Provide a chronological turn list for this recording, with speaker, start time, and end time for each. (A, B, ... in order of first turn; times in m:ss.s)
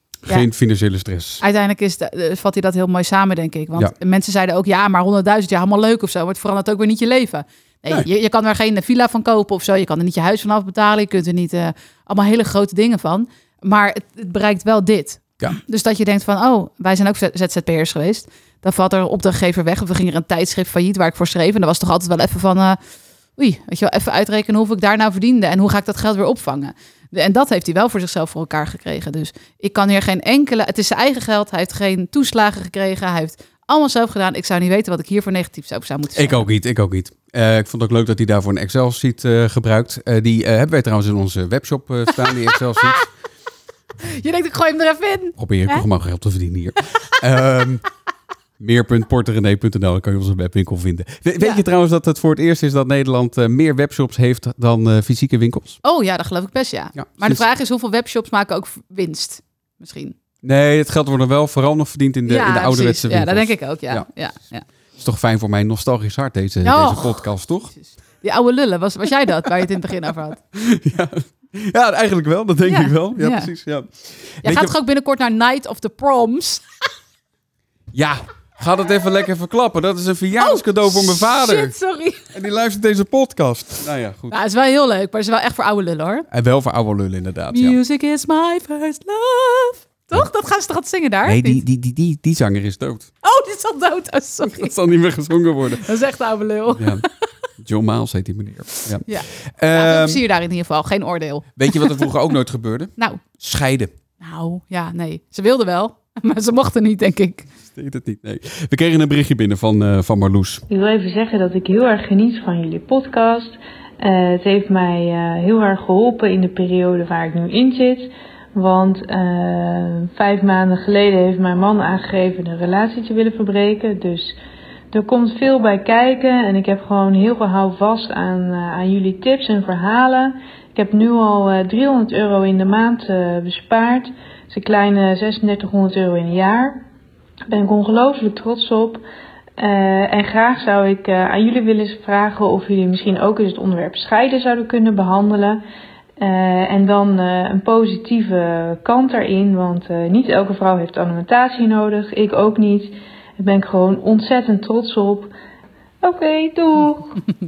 0:00.2-0:01.4 A
0:01.4-0:22.8 B
0:23.4-0:36.5 B
0:36.2-0:43.0 A
0:42.2-0:43.1 B
0:44.0-0:45.8 B
0:45.4-0:47.8 A
0:48.6-0:55.8 A
0:55.8-1:00.2 B
0:57.0-0:57.4 A
1:00.4-1:04.1 A
1:02.3-1:04.6 B
1:05.0-1:07.7 A
1:06.6-1:10.4 B
1:10.5-1:14.7 A
1:12.6-1:13.5 B
1:14.4-1:16.6 B
1:17.9-1:21.7 A
1:20.4-1:22.3 B
1:22.3-1:24.4 A
1:24.3-1:26.3 B
1:26.3-1:27.8 A
1:27.5-1:31.6 B
1:31.2-1:33.1 A
1:33.2-1:34.7 B
1:34.4-1:35.8 A
1:35.7-1:37.1 B
1:36.7-1:37.0 A
1:37.6-1:40.2 A
1:39.1-1:42.1 B
1:41.6-1:43.9 A
1:44.2-1:47.5 B
1:47.7-1:50.6 A
1:50.7-2:04.4 C
2:04.9-2:16.8 C
2:17.5-2:19.0 C
2:19.6-2:25.6 C
2:26.2-2:35.3 C
2:36.0-2:37.2 C